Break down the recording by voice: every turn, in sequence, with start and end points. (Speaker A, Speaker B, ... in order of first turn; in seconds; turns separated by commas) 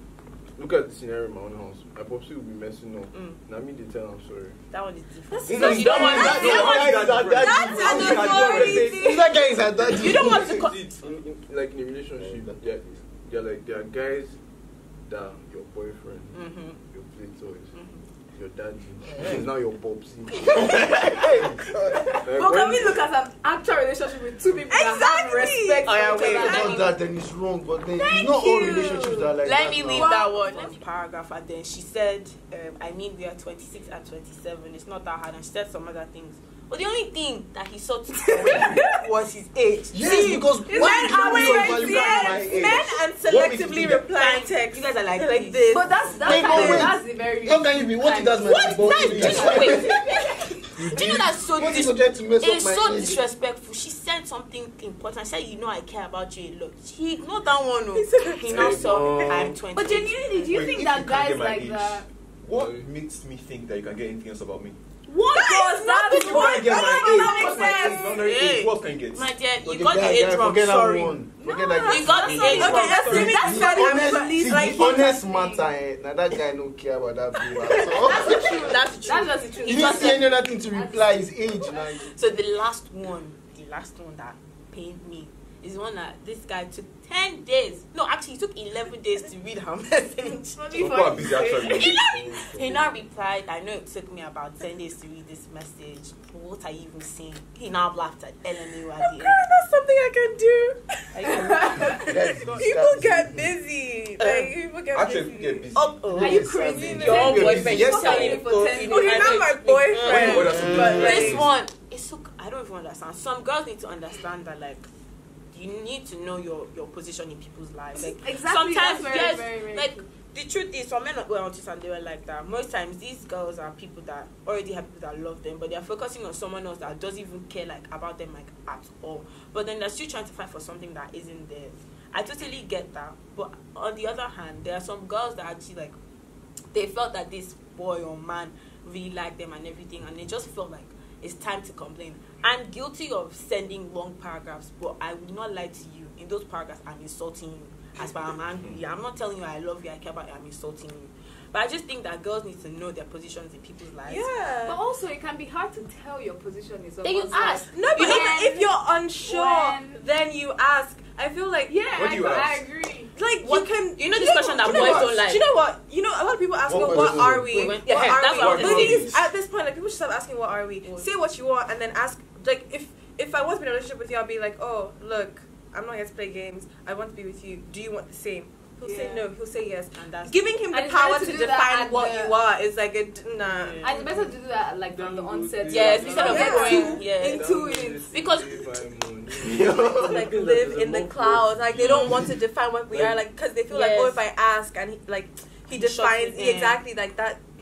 Speaker A: 0.6-4.6, Speaker B: 3.1-3.4, Speaker B: 4.7-8.8, Speaker C: 5.3-5.6, Speaker A: 5.5-6.7, Speaker D: 5.6-9.2, Speaker E: 5.9-10.7, Speaker C: 7.3-9.2, Speaker B: 9.9-11.1, Speaker A: 9.9-14.4, Speaker E: 12.2-12.6, Speaker A: 15.1-17.7, Speaker B: 16.3-16.8, Speaker B: 17.7-18.0, Speaker A: 18.3-20.4, Speaker B: 20.6-21.2, Speaker E: 21.2-22.0, Speaker A: 22.2-23.0, Speaker F: 22.3-26.9, Speaker C: 24.7-25.9, Speaker B: 25.8-27.0, Speaker E: 26.2-30.1, Speaker B: 28.0-40.5, Speaker F: 29.9-30.8, Speaker E: 39.9-42.9, Speaker F: 40.7-42.5, Speaker C: 40.7-47.0, Speaker B: 43.3-45.8, Speaker F: 45.7-50.2, Speaker E: 46.2-50.0, Speaker B: 48.5-50.1, Speaker E: 50.8-53.2, Speaker B: 50.8-60.5, Speaker C: 57.9-59.4, Speaker A: 58.5-59.6, Speaker F: 59.7-62.0, Speaker D: 60.4-64.8, Speaker A: 62.5-62.9, Speaker B: 65.1-66.7, Speaker C: 65.3-68.0, Speaker F: 65.7-68.3, Speaker D: 66.3-69.3, Speaker B: 68.1-71.2, Speaker E: 69.6-78.8, Speaker F: 71.4-75.7, Speaker B: 71.8-74.0, Speaker C: 72.3-75.1, Speaker F: 78.0-81.9, Speaker B: 78.5-80.3, Speaker E: 79.6-82.1, Speaker B: 81.7-99.4, Speaker C: 90.3-91.8, Speaker D: 90.8-92.0, Speaker A: 91.0-93.1, Speaker C: 99.1-100.8, Speaker B: 101.1-102.2, Speaker F: 101.5-102.0, Speaker E: 101.8-103.5, Speaker C: 102.5-105.7, Speaker B: 104.2-104.5, Speaker D: 104.9-106.0, Speaker B: 105.7-114.9, Speaker E: 106.1-108.4, Speaker F: 106.2-109.4, Speaker C: 106.8-107.1, Speaker D: 107.1-107.6, Speaker C: 108.8-111.1, Speaker D: 110.0-111.5, Speaker E: 110.2-111.4, Speaker B: 115.5-136.0, Speaker F: 117.9-120.0, Speaker B: 136.7-154.3, Speaker C: 154.0-154.8, Speaker F: 154.7-160.0, Speaker B: 157.0-158.3, Speaker C: 157.5-161.9, Speaker F: 161.7-163.1, Speaker D: 161.9-162.7, Speaker C: 163.1-183.9, Speaker B: 163.4-165.4, Speaker E: 164.6-165.2, Speaker E: 166.7-167.7, Speaker D: 166.9-167.2, Speaker B: 167.4-169.1, Speaker D: 168.3-169.2, Speaker B: 170.8-171.1, Speaker F: 178.8-179.3, Speaker B: 179.9-180.4, Speaker F: 180.7-182.4, Speaker B: 183.4-184.3, Speaker F: 183.8-188.1, Speaker A: 184.9-192.3, Speaker B: 185.7-187.5, Speaker C: 186.1-187.2, Speaker B: 188.1-188.8, Speaker D: 189.4-189.8, Speaker C: 189.9-197.4, Speaker A: 192.9-193.2, Speaker B: 193.7-194.2, Speaker B: 195.7-196.8